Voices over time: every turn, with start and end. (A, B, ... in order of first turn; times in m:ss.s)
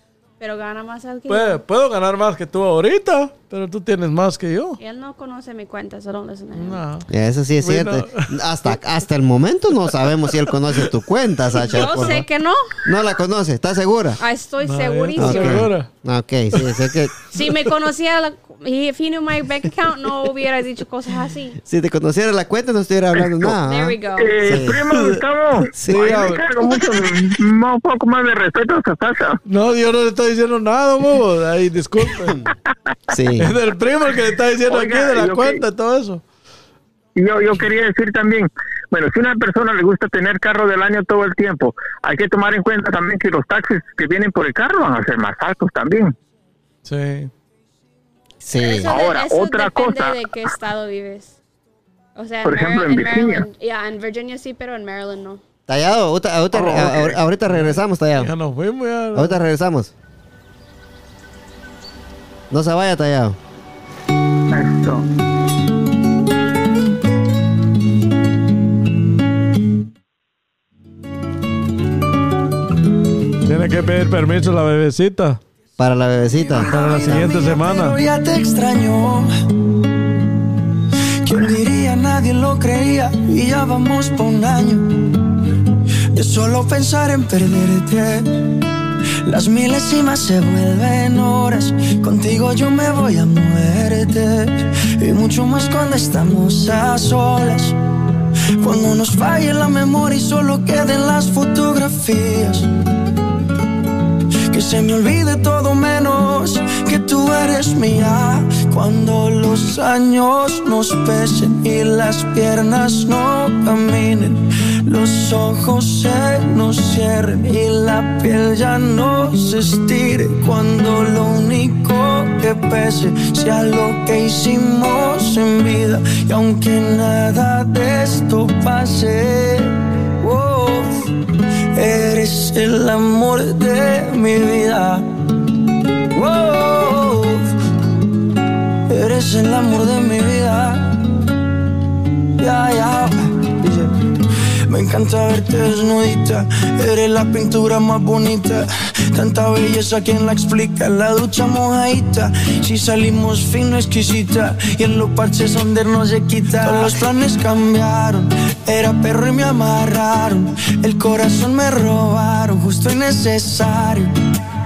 0:00.4-0:01.6 A
0:01.3-0:04.8 B
0:04.8-0:06.8 A
0:06.6-0:07.1 B
0:07.1-0:12.3 C
0:07.6-0:08.4 B
0:11.6-0:12.8 A
0:12.8-0:14.2 C
0:14.2-0:15.7 A
0:14.6-0:15.9 B
0:15.2-0:17.1 C
0:17.3-0:21.6 A
0:21.6-0:24.8 C
0:23.5-0:24.6 A
0:24.2-0:29.4 D
0:24.9-0:25.2 B
0:25.7-0:26.2 C
0:25.8-0:26.5 B
0:29.5-0:32.4 B
0:33.1-0:33.5 C
0:33.4-0:36.2 B
0:34.7-0:35.6 D
0:37.2-0:46.2 D
0:46.8-0:47.3 B
0:48.4-0:48.9 C
0:48.6-0:51.4 A
0:48.8-0:50.3 D
0:52.2-0:55.4 A
0:52.4-0:53.5 D
0:55.7-0:58.3 C
0:56.6-0:57.0 D
0:56.7-0:59.4 B
0:59.1-0:59.9 C
1:02.5-1:03.4 C
1:04.5-1:05.0 D
1:13.4-1:15.4 B
1:15.8-1:16.7 C
1:16.5-1:19.3 E
1:16.6-1:18.0 B
1:21.2-1:25.2 E
1:26.1-1:28.6 E
1:29.2-1:37.8 E
1:38.6-1:42.7 E
1:44.5-2:11.1 E
2:11.7-2:15.1 E
2:16.1-2:17.5 E
2:18.9-2:21.0 E
2:22.4-2:24.1 E
2:24.7-2:44.1 E